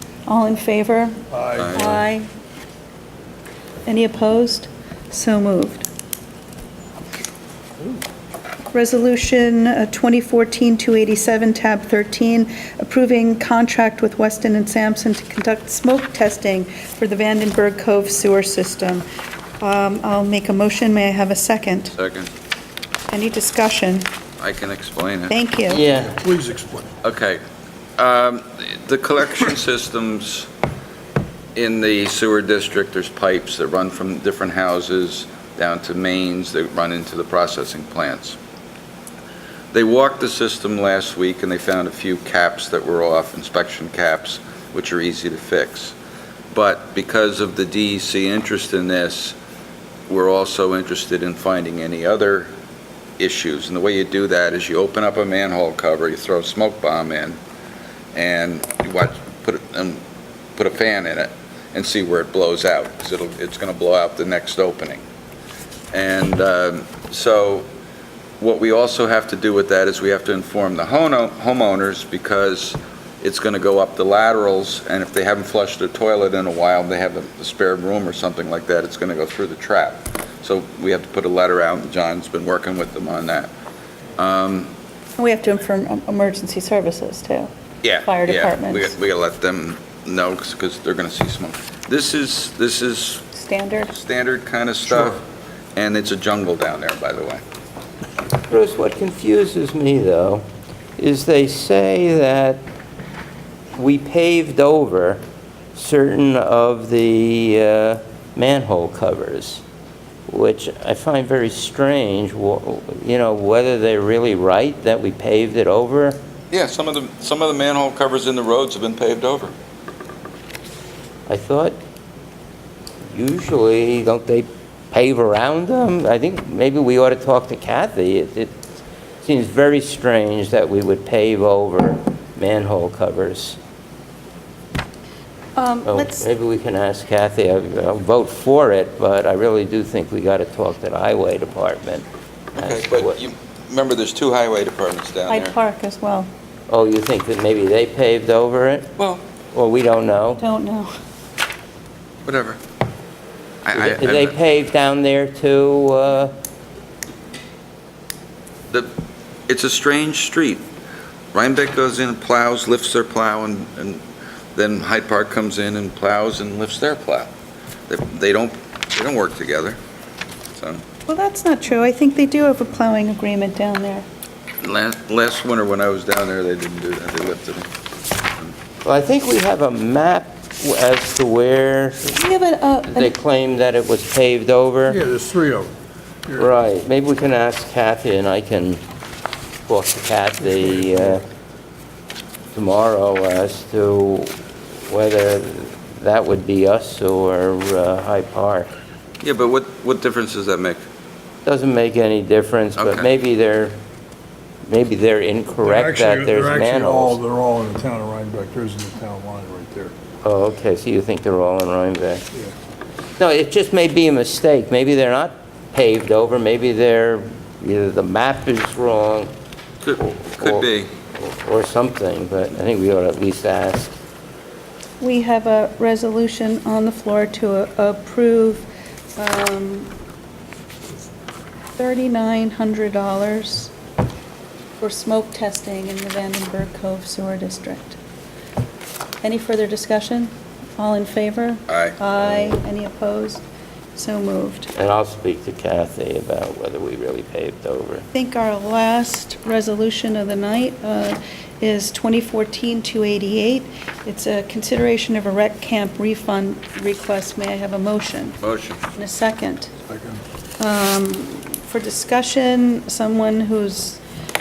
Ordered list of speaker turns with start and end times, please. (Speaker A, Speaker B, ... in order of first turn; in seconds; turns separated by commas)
Speaker A: 0.3-1.2, Speaker B: 1.3-2.0, Speaker C: 1.6-2.0, Speaker A: 1.7-2.3, Speaker A: 3.9-5.9, Speaker A: 8.7-19.1, Speaker A: 19.6-21.9, Speaker C: 21.9-22.3, Speaker A: 23.1-24.1, Speaker C: 24.4-25.4, Speaker A: 25.3-25.8, Speaker D: 25.7-26.1, Speaker B: 26.0-26.9, Speaker C: 27.0-27.4, Speaker C: 28.0-30.5, Speaker C: 31.6-38.4, Speaker C: 39.7-45.9, Speaker C: 46.5-49.4, Speaker C: 50.1-52.5, Speaker C: 53.2-57.4, Speaker C: 58.1-60.0, Speaker C: 60.5-65.0, Speaker C: 65.9-67.7, Speaker C: 68.4-83.5, Speaker C: 84.2-84.7, Speaker A: 85.2-88.9, Speaker C: 87.8-93.3, Speaker A: 93.3-93.9, Speaker C: 93.9-95.2, Speaker C: 95.8-97.4, Speaker D: 98.5-100.4, Speaker D: 101.0-102.6, Speaker D: 103.8-105.2, Speaker D: 105.7-109.6, Speaker D: 110.3-116.2, Speaker C: 116.5-119.5, Speaker D: 121.3-121.8, Speaker D: 123.1-128.6, Speaker D: 129.2-133.6, Speaker A: 135.6-136.2, Speaker D: 135.8-142.0, Speaker C: 142.6-145.6, Speaker D: 142.6-143.1, Speaker A: 145.3-146.3, Speaker D: 146.7-148.9, Speaker C: 149.0-149.2, Speaker D: 149.5-150.4, Speaker A: 150.4-150.9, Speaker C: 152.2-152.6, Speaker C: 153.6-154.3, Speaker D: 153.7-156.3, Speaker C: 159.5-160.6, Speaker C: 161.3-164.0, Speaker C: 164.5-167.3, Speaker C: 167.9-169.8, Speaker C: 170.6-170.8, Speaker A: 171.1-174.1, Speaker C: 174.6-177.7, Speaker D: 178.8-182.2, Speaker A: 182.1-183.1, Speaker D: 182.9-185.0, Speaker B: 184.9-185.7, Speaker B: 186.3-186.5, Speaker D: 186.4-188.8, Speaker D: 189.7-191.2, Speaker D: 192.5-194.3, Speaker D: 194.9-198.7, Speaker C: 199.2-200.8, Speaker D: 201.4-203.7, Speaker C: 202.8-203.1, Speaker D: 204.7-207.2, Speaker B: 205.6-209.9, Speaker D: 210.2-212.2, Speaker D: 213.2-219.3, Speaker C: 219.8-220.9, Speaker D: 220.3-223.9, Speaker A: 225.0-228.6, Speaker A: 229.2-229.9, Speaker A: 231.8-233.7, Speaker A: 234.8-238.0, Speaker A: 239.2-243.4, Speaker C: 241.7-242.0, Speaker A: 243.9-244.7, Speaker D: 244.7-248.1, Speaker A: 248.1-258.4, Speaker C: 258.4-258.8, Speaker A: 258.9-259.7, Speaker B: 259.9-260.2, Speaker A: 260.6-264.0